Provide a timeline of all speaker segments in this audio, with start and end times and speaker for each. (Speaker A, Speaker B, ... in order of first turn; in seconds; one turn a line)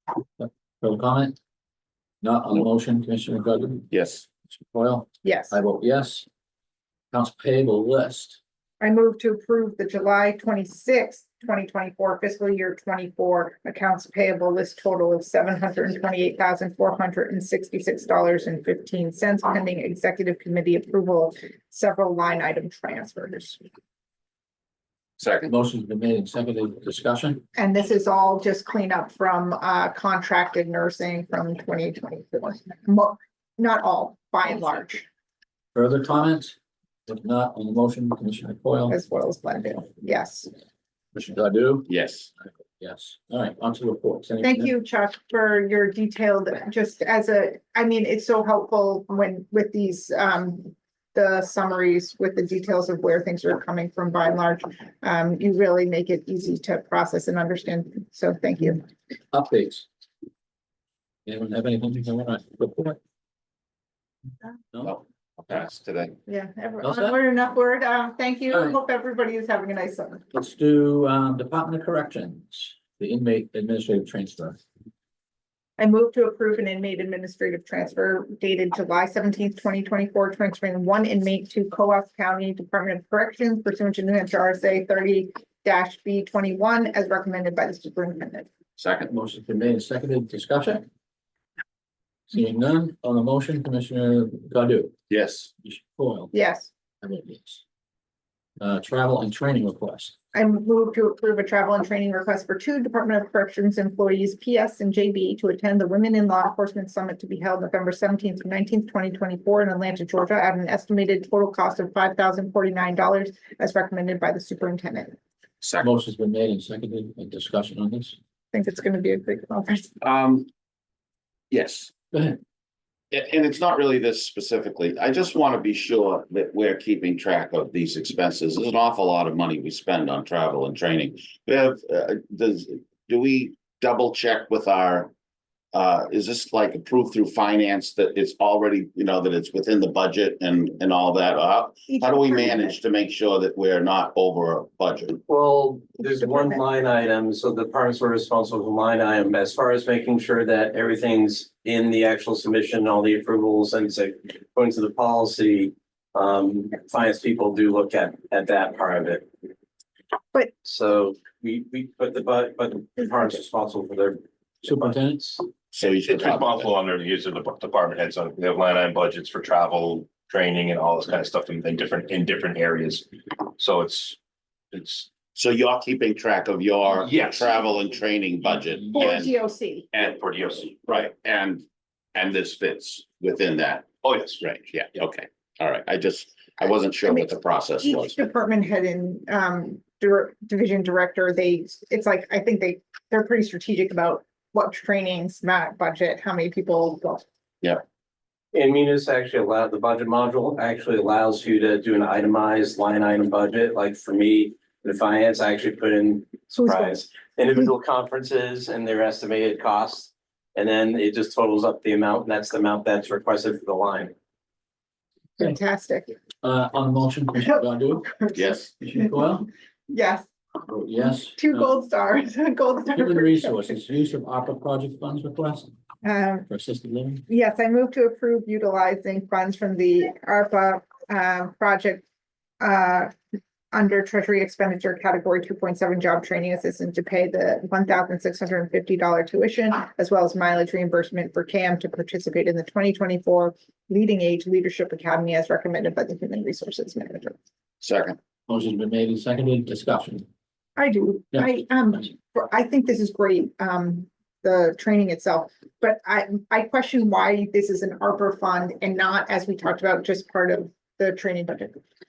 Speaker A: 0.4-1.4
Speaker A: 2.2-3.9
Speaker B: 3.9-4.3
Speaker A: 4.5-6.3
Speaker C: 5.2-5.6
Speaker A: 7.1-8.4
Speaker C: 8.8-23.6
Speaker B: 25.2-25.5
Speaker A: 25.4-27.4
Speaker C: 27.6-35.1
Speaker A: 35.8-36.6
Speaker A: 37.1-39.0
Speaker C: 38.9-40.5
Speaker A: 41.1-41.9
Speaker B: 41.9-42.3
Speaker A: 42.4-44.7
Speaker C: 44.4-58.9
Speaker A: 59.3-59.9
Speaker A: 61.3-63.0
Speaker A: 64.7-65.0
Speaker B: 64.8-66.2
Speaker C: 66.3-70.2
Speaker A: 66.8-67.2
Speaker A: 70.3-74.6
Speaker C: 75.8-88.5
Speaker B: 88.8-89.1
Speaker A: 89.1-90.8
Speaker A: 92.3-95.0
Speaker B: 95.1-95.5
Speaker A: 95.6-96.3
Speaker C: 96.3-96.7
Speaker A: 97.0-97.6
Speaker A: 98.6-100.2
Speaker C: 100.3-115.2
Speaker B: 115.6-115.9
Speaker A: 115.8-118.2
Speaker C: 118.5-119.9
Speaker B: 120.0-120.5
Speaker B: 121.5-121.9
Speaker A: 122.1-122.4
Speaker B: 123.1-135.1
Speaker B: 135.7-145.2
Speaker C: 141.9-142.8
Speaker D: 145.3-159.3
Speaker C: 146.2-146.6
Speaker D: 160.6-164.2
Speaker A: 164.6-165.2
Speaker D: 164.7-165.4
Speaker B: 165.7-166.7
Speaker E: 165.8-174.2
Speaker E: 174.7-175.2
Speaker B: 175.3-179.4
Speaker E: 177.0-177.8
Speaker E: 178.5-178.9
Speaker C: 178.9-179.9
Speaker E: 179.9-180.8
Speaker B: 179.9-188.2
Speaker E: 184.0-184.5
Speaker C: 187.1-197.2
Speaker D: 198.5-214.1
Speaker C: 206.5-207.0
Speaker C: 215.4-216.2
Speaker A: 216.4-218.2
Speaker B: 218.3-218.7
Speaker A: 218.8-219.5
Speaker C: 219.9-220.3
Speaker A: 220.7-221.7
Speaker C: 221.3-223.7
Speaker A: 222.9-225.7
Speaker C: 226.0-226.5
Speaker A: 226.5-227.2
Speaker C: 227.3-232.1
Speaker C: 232.6-233.2
Speaker C: 233.7-247.4
Speaker B: 247.8-248.2
Speaker A: 248.5-250.3
Speaker C: 250.8-261.8